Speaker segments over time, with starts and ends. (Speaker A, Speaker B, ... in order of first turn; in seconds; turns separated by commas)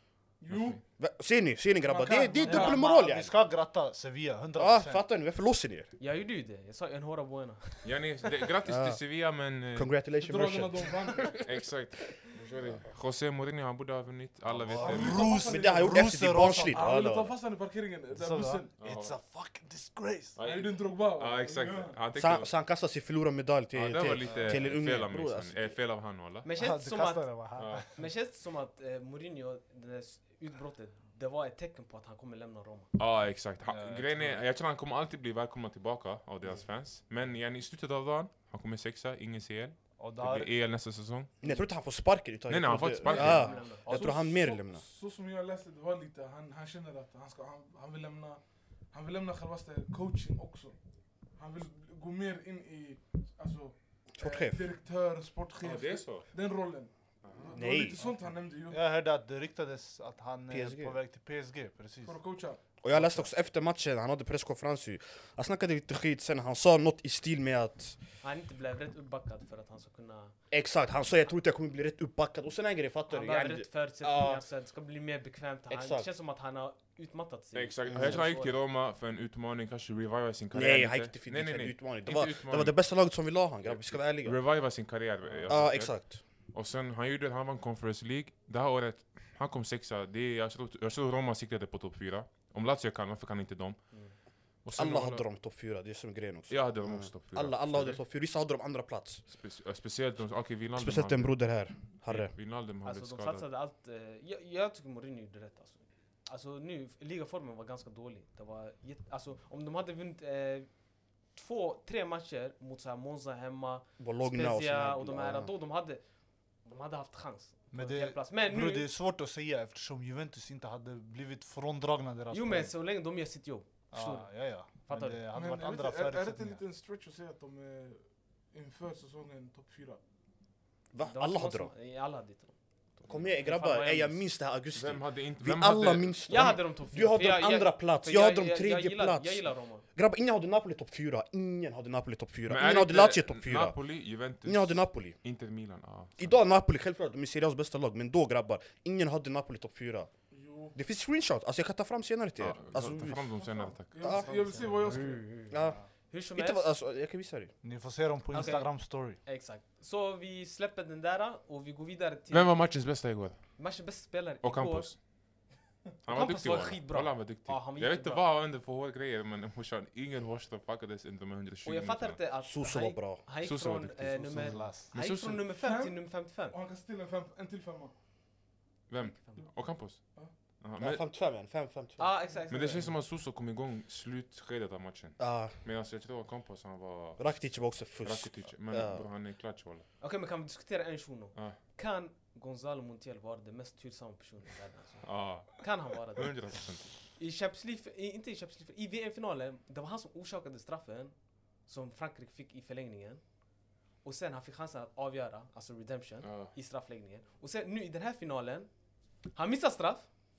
Speaker A: 0.4-0.8, Speaker B: 0.5-0.8, Speaker C: 1.0-3.3, Speaker A: 1.8-2.9, Speaker D: 2.4-5.0, Speaker C: 4.5-5.9, Speaker E: 6.0-8.3, Speaker B: 7.8-9.9, Speaker C: 8.7-9.0, Speaker C: 9.7-11.4, Speaker A: 10.2-11.4, Speaker B: 11.4-15.2, Speaker D: 14.6-16.9, Speaker A: 14.8-18.7, Speaker C: 14.9-17.3, Speaker D: 18.1-20.4, Speaker B: 18.8-19.2, Speaker B: 20.4-22.5, Speaker A: 20.4-22.0, Speaker C: 22.1-25.7, Speaker B: 23.7-26.5, Speaker D: 24.2-24.8, Speaker E: 26.4-32.9, Speaker D: 26.5-27.9, Speaker B: 27.6-27.9, Speaker B: 33.0-41.3, Speaker D: 33.6-34.4, Speaker D: 40.0-40.5, Speaker C: 41.4-44.8, Speaker B: 42.5-43.7, Speaker E: 43.0-43.9, Speaker D: 43.8-44.1, Speaker A: 43.9-50.7, Speaker A: 51.3-58.8, Speaker C: 54.1-54.6, Speaker B: 55.6-56.3, Speaker C: 57.5-58.0, Speaker D: 58.0-62.2, Speaker C: 60.5-61.0, Speaker A: 62.0-62.6, Speaker C: 62.8-68.0, Speaker D: 62.9-63.3, Speaker E: 68.2-70.3, Speaker C: 70.5-74.4, Speaker E: 73.1-78.6, Speaker C: 75.7-76.1, Speaker B: 77.5-83.0, Speaker C: 77.9-78.2, Speaker C: 80.5-84.4, Speaker B: 83.6-94.0, Speaker C: 85.5-86.2, Speaker B: 94.6-95.2, Speaker C: 94.7-99.2, Speaker B: 96.5-98.0, Speaker B: 99.3-103.4, Speaker C: 100.7-102.3, Speaker E: 102.8-110.7, Speaker E: 111.3-116.0, Speaker C: 114.0-115.5, Speaker E: 116.6-118.9, Speaker D: 117.7-122.7, Speaker E: 122.3-125.2, Speaker D: 123.9-126.6, Speaker A: 125.3-130.0, Speaker C: 130.9-131.7, Speaker E: 131.0-132.5, Speaker C: 133.1-143.8, Speaker E: 133.2-134.2, Speaker B: 134.7-136.6, Speaker E: 136.3-139.8, Speaker B: 142.5-146.4, Speaker C: 144.4-145.2, Speaker C: 146.2-150.1, Speaker A: 150.3-150.8, Speaker C: 150.7-153.2, Speaker B: 152.4-154.9, Speaker A: 153.3-155.3, Speaker C: 154.0-154.3, Speaker E: 154.6-155.6, Speaker C: 155.5-155.8, Speaker E: 156.1-156.7, Speaker C: 156.3-157.5, Speaker D: 157.6-159.2, Speaker E: 158.3-162.6, Speaker B: 162.3-163.6, Speaker E: 163.6-164.9, Speaker B: 164.4-165.0, Speaker B: 166.0-172.2, Speaker E: 166.1-168.2, Speaker E: 171.6-176.6, Speaker C: 172.4-173.2, Speaker B: 173.4-175.4, Speaker D: 174.3-174.9, Speaker A: 175.6-177.9, Speaker B: 178.9-181.0, Speaker E: 179.1-179.4, Speaker A: 179.3-180.3, Speaker C: 180.8-182.1, Speaker E: 182.0-182.9, Speaker B: 182.5-189.8, Speaker C: 185.2-185.6, Speaker C: 187.2-189.1, Speaker E: 190.0-196.5, Speaker B: 195.0-196.9, Speaker E: 197.2-203.2, Speaker E: 204.0-208.7, Speaker B: 206.2-206.5, Speaker E: 209.3-210.1